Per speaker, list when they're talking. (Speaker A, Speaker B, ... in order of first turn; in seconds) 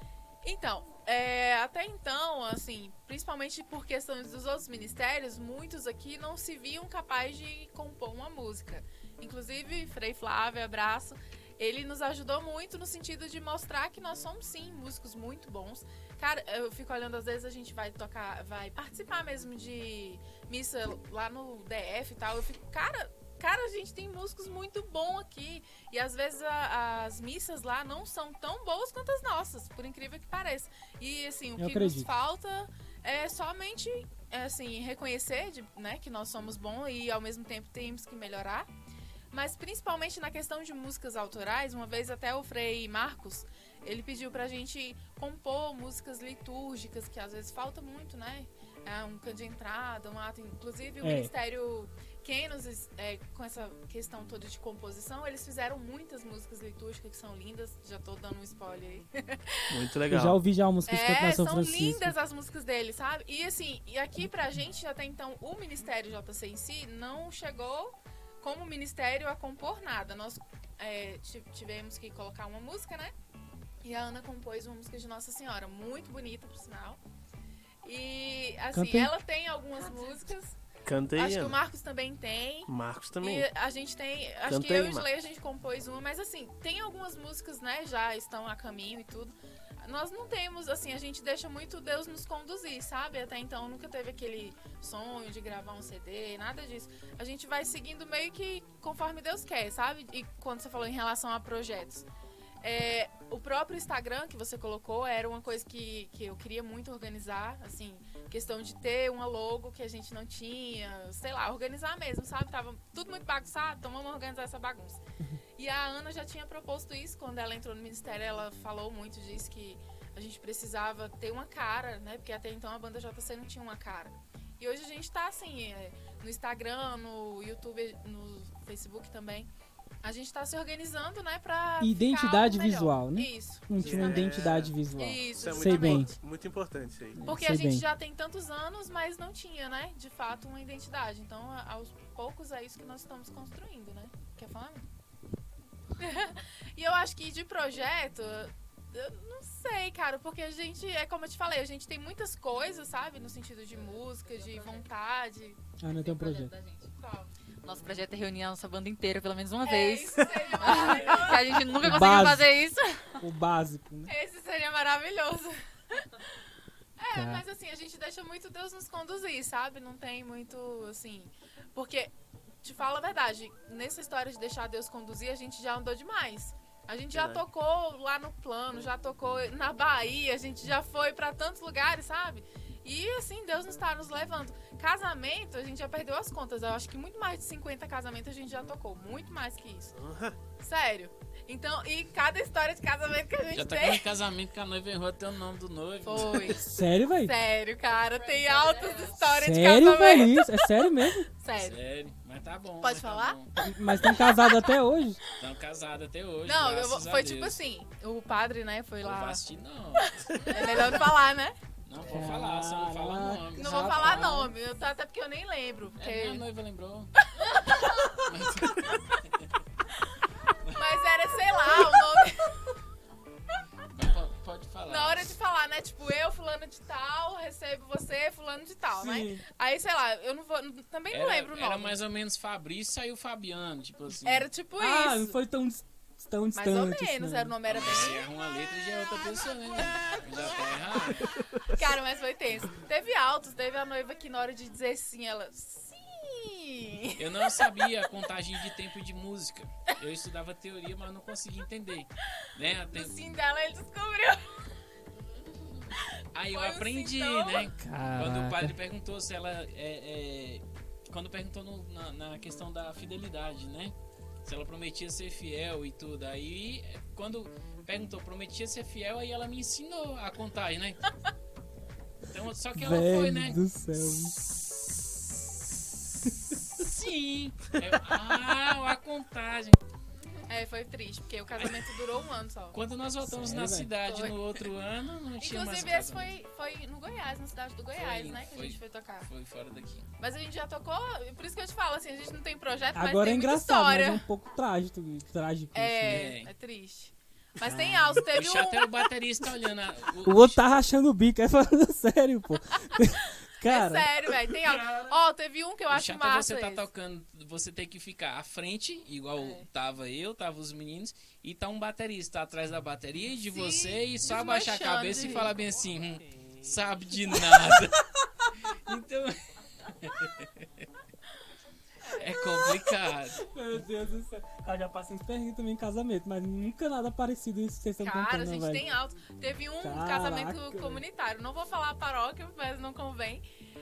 Speaker A: 0.4-38.7, 39.3-59.8, 60.9-73.1, 73.8-77.0, 77.8-80.6, 81.2-102.1, 102.6-115.0, 115.6-129.5, 130.0-136.2, 137.2-144.9, 146.0-155.6, 157.0-157.3, 159.7-161.9, 164.1-166.3, 167.0-189.9, 190.6-194.1, 196.1-200.6, 201.3-201.8, 202.8-204.7, 206.5-209.4, 210.0-211.6, 213.6-216.4, 217.4-218.3, 220.8-222.7, 224.9-232.0, 234.1-235.3, 236.6-238.2, 241.7-247.7, 252.9-254.6, 256.5-257.7, 280.5-282.8, 284.0-284.4, 285.4-289.3, 290.2-294.2, 295.8-299.1, 303.6-306.9, 309.4-309.7, 313.5-315.6, 322.0-322.8, 328.0-333.4
Speaker B: 31.6-32.1, 51.0-51.3, 60.1-62.2, 78.7-79.1, 131.8-136.1, 137.2-137.9, 155.8-156.5, 161.8-162.5, 163.2-164.1, 167.1-167.4, 196.6-197.3, 199.3-201.3, 203.6-205.2, 212.1-214.5, 229.0-229.4, 234.8-237.6, 257.8-258.8, 272.8-274.5, 276.2-276.6, 283.2-283.9, 292.9-296.3, 297.6-298.2, 300.2-304.3, 323.4-328.9, 329.8-331.0
Speaker C: 59.7-60.4, 80.8-81.6, 82.7-83.5, 84.5-85.1, 133.8-134.7, 135.3-137.3, 177.2-177.4, 189.9-190.4
Speaker D: 154.3-154.8, 156.0-156.9, 157.6-163.0, 198.2-199.1
Speaker E: 160.7-161.3, 193.5-196.6, 201.6-203.5, 205.4-207.6, 209.0-211.1, 211.9-214.5, 216.0-217.1, 218.2-219.5, 220.7-221.2, 223.9-225.3, 231.1-234.5, 237.7-241.4, 247.2-253.3, 256.4-271.1, 272.3-273.6, 276.5-279.8, 281.6-281.9, 282.7-286.4, 287.9-290.1, 296.1-296.5, 298.2-300.6, 305.9-318.1, 318.6-320.9, 322.1-323.4